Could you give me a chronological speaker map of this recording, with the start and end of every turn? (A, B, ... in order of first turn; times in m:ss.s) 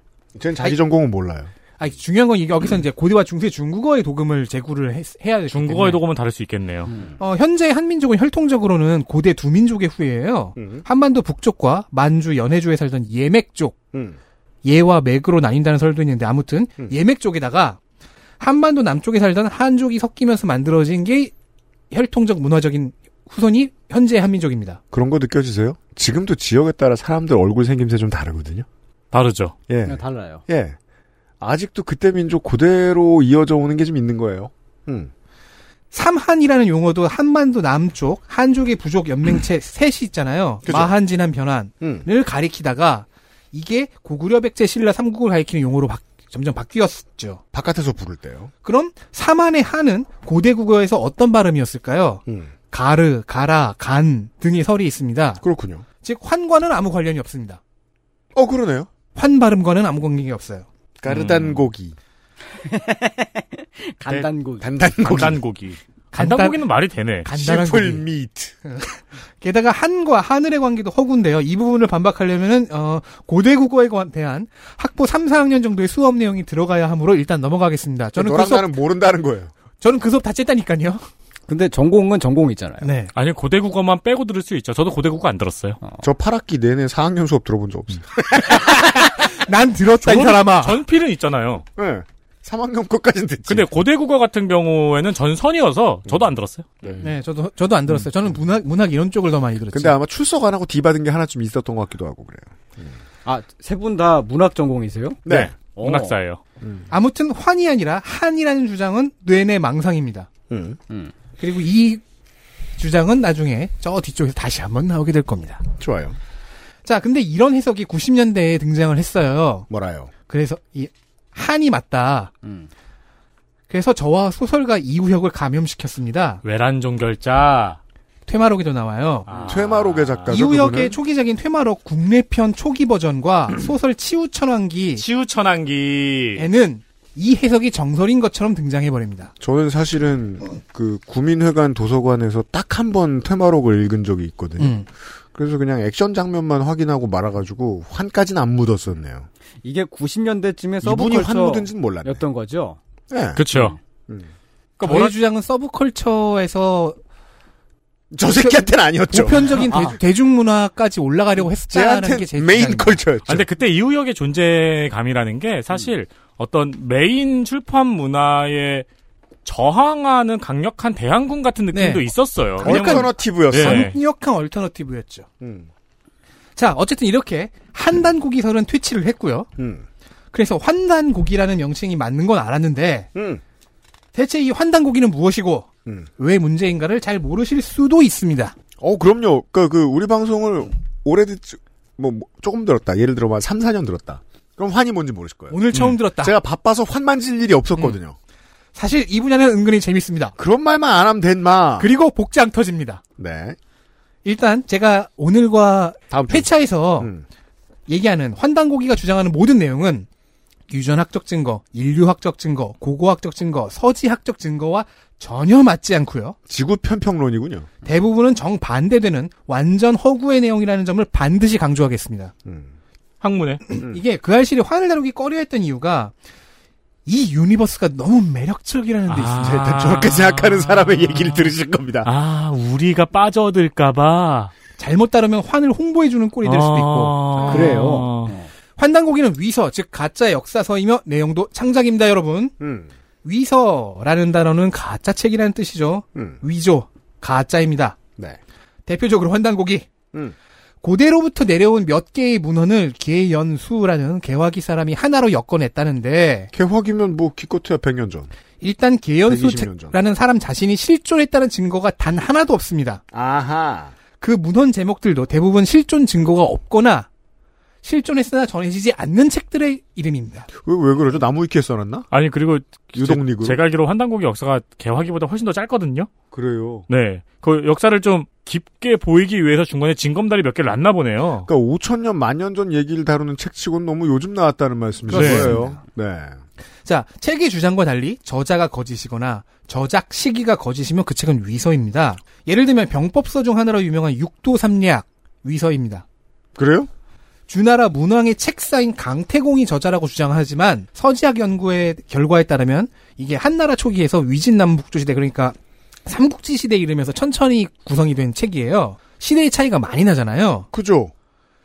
0:00.3-0:01.5 A
0:01.8-0:06.0 B
0:05.5-0:06.9 C
0:07.2-0:13.8 B
0:10.6-0:10.8 A
0:13.9-0:14.2 A
0:14.6-0:17.8 B
0:18.4-0:21.3 B
0:21.9-0:24.8 B
0:24.9-0:28.6 A
0:29.1-0:29.5 C
0:29.7-0:30.8 A
0:29.8-0:30.4 D
0:31.4-0:35.1 A
0:35.9-0:47.4 B
0:40.6-0:40.9 A
0:41.8-0:42.1 A
0:47.5-0:48.5 A
0:48.6-0:55.4 B
0:52.3-0:52.5 A
0:55.4-0:55.8 A
0:56.0-0:57.6 B
0:58.3-0:58.9 A
0:59.1-1:00.6 B
1:01.0-1:02.0 A
1:01.1-1:01.6 C
1:02.6-1:04.6 D
1:04.1-1:05.4 A
1:05.0-1:07.3 C
1:06.1-1:06.6 B
1:07.2-1:08.0 B
1:07.3-1:08.6 A
1:08.6-1:18.7 B
1:18.2-1:19.5 A
1:19.8-1:21.0 B
1:21.5-1:22.9 D
1:22.8-1:23.1 B
1:23.1-1:25.8 C
1:26.0-1:28.6 A
1:28.4-1:30.8 B
1:30.0-1:31.6 C
1:31.8-1:33.7 A
1:33.5-1:36.8 C
1:37.0-1:40.0 B
1:39.7-1:42.9 A
1:43.2-1:46.1 D
1:45.2-1:45.6 A
1:45.8-1:46.4 C
1:46.9-1:50.3 B
1:50.5-1:50.8 A
1:51.4-1:52.0 B
1:52.8-1:55.6 B
1:55.8-1:56.2 A
1:56.8-1:59.7 B
1:59.7-2:00.1 A
2:00.3-2:02.3 B
2:02.4-2:02.7 D
2:03.7-2:06.4 B
2:06.4-2:07.8 C
2:08.3-2:09.3 B
2:09.3-2:10.3 C
2:09.4-2:11.0 A
2:10.3-2:15.0 B
2:15.0-2:16.4 C
2:16.4-2:19.3 B
2:19.4-2:24.8 A
2:24.6-2:24.8 B
2:25.3-2:29.3 A
2:29.6-2:32.8 D
2:30.8-2:32.2 A
2:33.1-2:33.5 A
2:33.4-2:33.8 C
2:34.8-2:35.2 C
2:34.8-2:37.0 B
2:38.1-2:39.6 A
2:38.4-2:43.0 B
2:39.6-2:40.0 D
2:41.7-2:43.5 A
2:43.3-2:48.8 C
2:49.4-2:54.0 C
2:51.7-2:52.1 B
2:52.6-2:55.3 B
2:52.6-2:53.9 A
2:55.4-2:55.7 A
2:56.6-2:59.5 B
2:59.6-2:59.8 A
3:00.3-3:03.1 B
3:03.1-3:03.4 A
3:04.1-3:08.5 B
3:08.8-3:15.6 A
3:15.5-3:16.3 B
3:16.2-3:18.2 A
3:18.7-3:20.4 B
3:20.4-3:21.9 A
3:21.8-3:23.0 B
3:23.2-3:23.6 A
3:24.2-3:27.1 B
3:26.1-3:27.2 A
3:27.9-3:30.1 B
3:30.7-3:36.4 B
3:36.5-3:37.7 A
3:37.8-3:42.3 B
3:42.4-3:42.7 A
3:43.2-3:43.6 C
3:43.7-3:46.1 B
3:47.0-3:49.5 B
3:49.1-3:51.5 C
3:49.4-3:52.1 A
3:52.0-3:54.5 C
3:54.8-3:57.3 B
3:56.4-3:58.4 C
3:57.4-3:58.0 A
3:57.5-3:58.5 D
3:58.8-4:02.5 B
4:02.6-4:02.9 A
4:03.2-4:08.0 B
4:06.1-4:06.4 A
4:08.9-4:09.9 B
4:10.8-4:16.5 B
4:16.5-4:18.3 A
4:18.6-4:23.0 B
4:19.3-4:20.0 A
4:23.1-4:23.9 A
4:24.2-4:27.1 B
4:27.8-4:30.5 B
4:30.5-4:32.1 A
4:32.1-4:36.1 C
4:32.9-4:33.6 A
4:36.3-4:36.8 A
4:36.9-4:41.5 C
4:41.4-4:46.4 A
4:45.1-4:45.8 B
4:45.1-4:45.6 C
4:46.8-4:56.0 B
4:56.6-4:56.9 A
4:57.5-5:10.7 B
5:10.7-5:11.1 A